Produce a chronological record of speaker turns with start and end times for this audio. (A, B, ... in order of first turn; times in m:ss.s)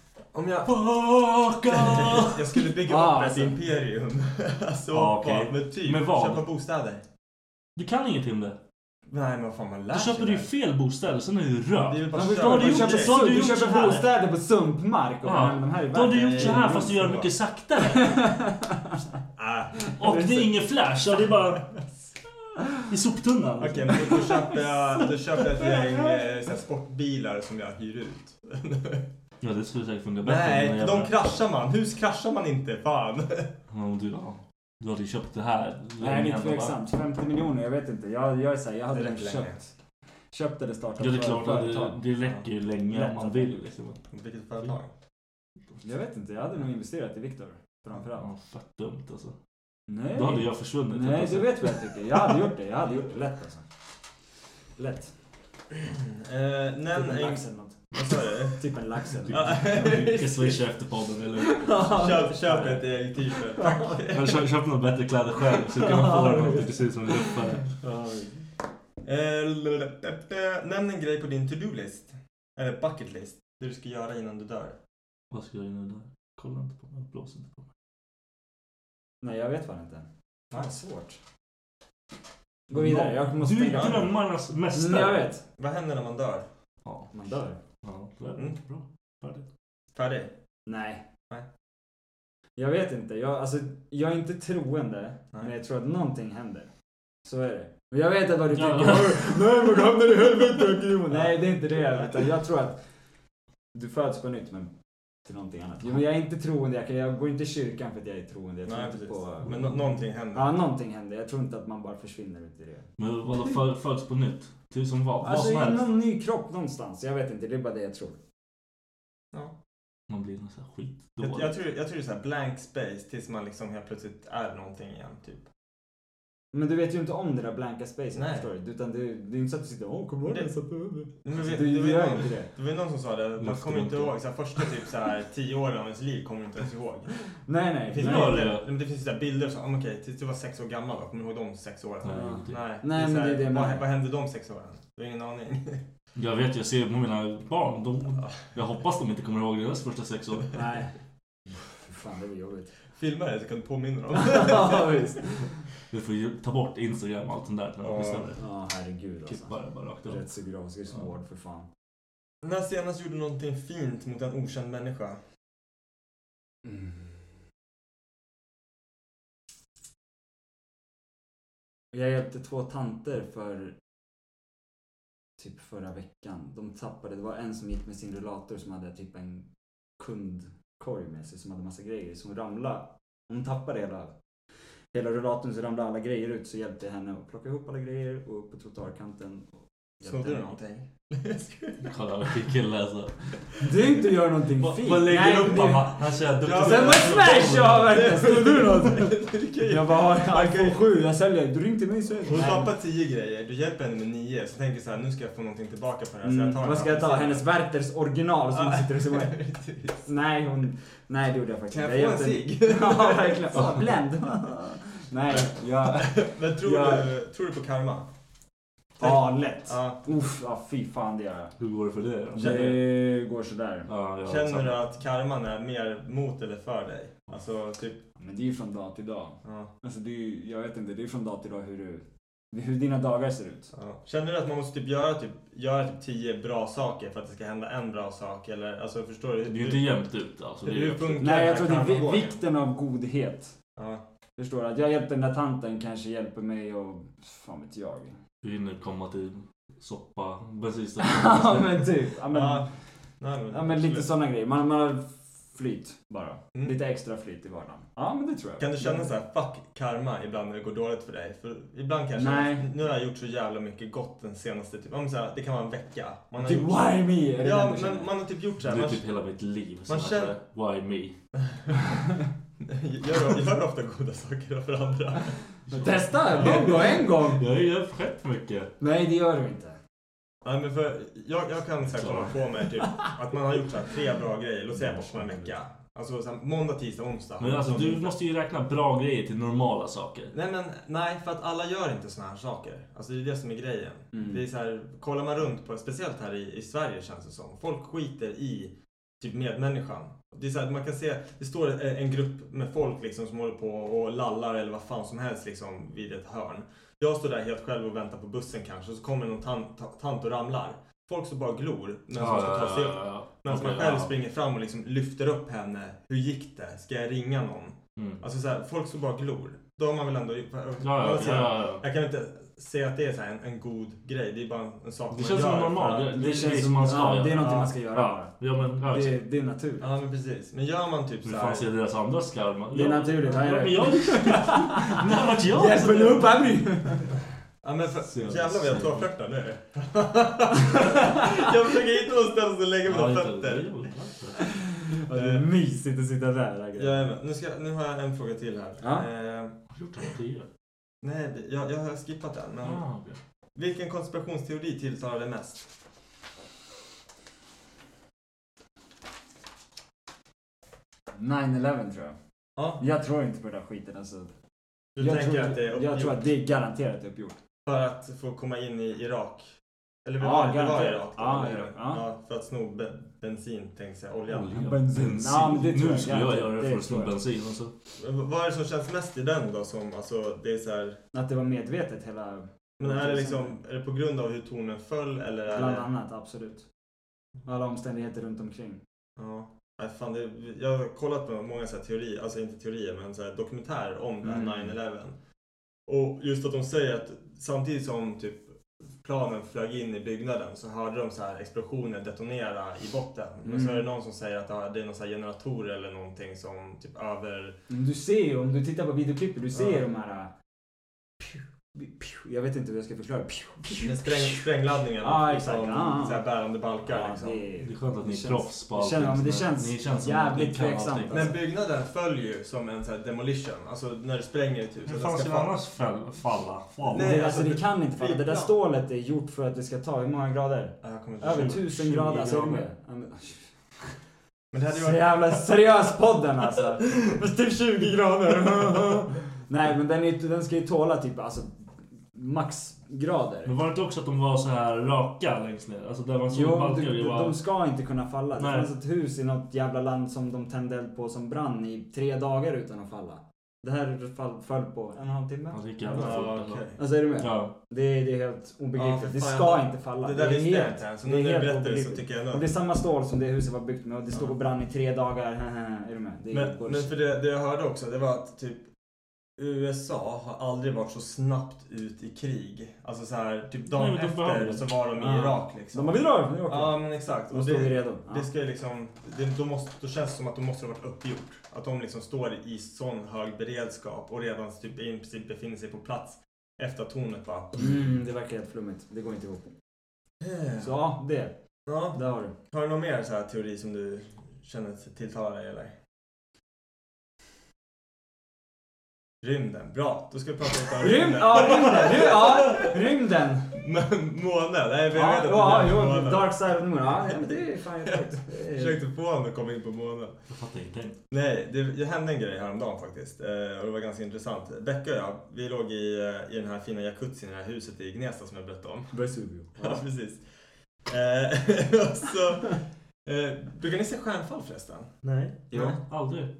0:00.3-0:00.9 A
0:00.7-0:02.7 B
0:01.7-0:07.0 A
0:02.8-0:03.6 C
0:04.9-0:06.4 B
0:07.8-0:08.6 B
0:09.1-0:10.5 A
0:09.9-0:14.1 B
0:11.7-0:13.2 A
0:12.1-0:17.1 C
0:15.2-0:18.4 B
0:16.1-0:17.3 A
0:17.8-0:19.0 C
0:19.4-0:20.1 A
0:19.9-0:20.4 C
0:19.9-0:21.8 B
0:22.8-0:24.4 B
0:23.6-0:29.0 A
0:29.4-0:31.2 B
0:30.2-0:33.5 A
0:33.7-0:36.7 B
0:36.0-0:39.7 C
0:38.9-0:39.6 A
0:40.3-0:42.0 C
0:41.0-0:44.0 B
0:42.9-0:43.6 C
0:44.1-0:44.9 A
0:45.8-0:48.3 C
0:48.2-0:49.4 B
0:49.9-0:53.6 C
0:50.1-0:51.9 B
0:54.8-0:55.1 C
0:55.9-0:58.6 A
0:56.9-0:59.9 C
0:59.3-1:00.6 A
0:59.3-1:02.2 B
1:01.4-1:04.0 C
1:01.9-1:04.4 A
1:04.1-1:07.8 B
1:05.7-1:08.4 C
1:09.0-1:14.8 A
1:15.3-1:17.6 B
1:19.2-1:21.2 C
1:22.7-1:24.1 C
1:22.7-1:25.3 B
1:23.7-1:24.1 A
1:24.7-1:25.4 C
1:25.6-1:26.5 A
1:26.8-1:27.1 B
1:27.1-1:27.6 C
1:27.8-1:29.4 B
1:29.9-1:30.3 A
1:30.6-1:31.0 C
1:32.6-1:36.7 C
1:37.2-1:42.8 C
1:38.5-1:39.3 B
1:43.7-1:44.7 C
1:45.2-1:49.6 C
1:48.6-1:50.5 A
1:49.4-1:49.8 B
1:50.3-1:52.9 C
1:53.0-1:55.9 B
1:55.2-1:58.2 C
2:00.1-2:01.5 B
2:01.2-2:05.5 A
2:06.5-2:12.5 C
2:08.1-2:08.5 A
2:10.2-2:10.5 A
2:11.2-2:17.1 A
2:13.4-2:14.1 B
2:17.4-2:18.4 C
2:17.8-2:25.8 A
2:18.0-2:18.6 B
2:22.0-2:22.6 B
2:22.1-2:23.8 C
2:26.2-2:30.6 B
2:30.5-2:30.9 C
2:31.5-2:32.7 C
2:32.9-2:35.0 A
2:34.1-2:35.5 C
2:35.9-2:38.4 B
2:37.8-2:38.3 A
2:38.4-2:39.5 C
2:39.3-2:40.2 B
2:40.0-2:41.7 C
2:42.4-2:45.2 A
2:46.6-2:47.2 C
2:51.9-2:53.8 C
2:55.4-2:59.4 C
3:00.0-3:04.1 C
3:04.9-3:10.6 C
3:10.0-3:11.8 A
3:11.8-3:13.3 B
3:13.6-3:22.7 C
3:14.6-3:18.2 B
3:15.4-3:15.8 A
3:16.4-3:21.1 A
3:22.2-3:27.4 A
3:26.2-3:29.4 C
3:28.5-3:30.1 A
3:30.0-3:37.1 C
3:31.7-3:33.8 A
3:35.3-3:38.1 A
3:39.0-3:41.5 C
3:39.0-3:40.0 A
3:41.6-3:42.9 B
3:42.3-3:42.8 A
3:42.4-3:43.9 C
3:43.9-3:44.8 B
3:44.2-3:48.0 A
3:48.2-3:53.7 C
3:49.4-3:49.7 A
3:53.7-3:59.8 A
3:59.4-4:01.3 B
4:00.6-4:02.4 A
4:01.2-4:03.5 C
4:03.8-4:04.0 A
4:04.4-4:08.2 C
4:08.4-4:11.9 B
4:11.0-4:12.7 C
4:12.3-4:12.7 A
4:13.2-4:14.1 A
4:13.5-4:19.1 C
4:18.6-4:29.0 A
4:22.2-4:22.7 C
4:26.4-4:28.1 C
4:28.6-4:31.1 B
4:29.9-4:30.3 A
4:31.4-4:31.9 A
4:32.6-4:35.4 A
4:35.7-4:38.7 B
4:35.7-4:37.4 C
4:36.4-4:36.8 A
4:38.8-4:39.8 C
4:40.4-4:48.1 A
4:41.9-4:42.4 B
4:44.7-4:45.5 C
4:47.4-4:50.3 B
4:50.3-5:26.1 A
4:54.1-4:54.4 C
5:12.2-5:14.1 B
5:18.0-5:18.2 B
5:20.8-5:21.8 B
5:25.1-5:29.2 B
5:26.1-5:29.9 C
5:27.4-5:27.7 A
5:29.8-5:31.7 A
5:31.2-5:36.3 B
5:32.7-5:37.1 C
5:37.6-5:43.8 A
5:38.1-5:39.0 B
5:42.8-5:44.5 B
5:44.4-5:47.1 C
5:45.1-5:45.4 A
5:46.7-5:49.6 A
5:48.8-5:49.1 C
5:49.7-5:50.5 B
5:51.0-5:52.8 A
5:52.6-5:53.2 B
5:53.5-5:55.7 A
6:01.1-6:02.2 C
6:02.6-6:02.8 A
6:02.8-6:04.3 C
6:04.9-6:06.3 A
6:05.0-6:07.4 C
6:07.6-6:14.6 A
6:10.2-6:12.0 C
6:14.3-6:17.7 B
6:14.5-6:17.1 C
6:18.0-6:21.0 A
6:21.1-6:23.6 C
6:22.8-6:25.9 A
6:25.5-6:26.6 C
6:27.4-6:28.8 C
6:29.2-6:35.1 A
6:34.2-6:34.7 C
6:35.9-6:47.6 A
6:43.4-6:43.8 C
6:47.7-6:50.3 C
6:49.5-6:49.8 A
6:51.2-6:56.2 C
6:53.8-6:57.4 A
6:56.8-7:01.4 C
6:57.6-7:01.3 B
7:01.1-7:05.5 A
7:04.8-7:07.2 B
7:06.9-7:08.5 A
7:06.9-7:13.5 C
7:10.8-7:12.2 A
7:11.3-7:12.6 B
7:14.5-7:15.4 A
7:14.7-7:21.5 C
7:22.1-7:23.5 C
7:23.4-7:27.4 B
7:26.3-7:47.0 C
7:28.4-7:28.7 B
7:35.5-7:36.7 B
7:35.9-7:36.8 A
7:37.2-7:37.5 B
7:38.8-7:42.5 A
7:46.3-7:48.7 A
7:49.4-8:07.7 A
7:53.7-7:54.7 B
7:54.9-7:58.3 C
8:07.6-8:09.5 C
8:10.2-8:10.7 A
8:10.6-8:11.3 C
8:11.6-8:15.7 A
8:11.9-8:12.3 C
8:19.2-8:22.7 A
8:20.8-8:23.5 C
8:23.5-8:26.3 A
8:24.9-8:28.8 C
8:26.9-8:30.2 A
8:30.3-8:31.0 B
8:31.1-8:38.9 A
8:38.9-8:39.8 C
8:39.6-8:40.2 A
8:40.8-8:44.9 A
8:45.0-8:46.3 B
8:45.5-8:45.8 C
8:45.5-8:45.8 A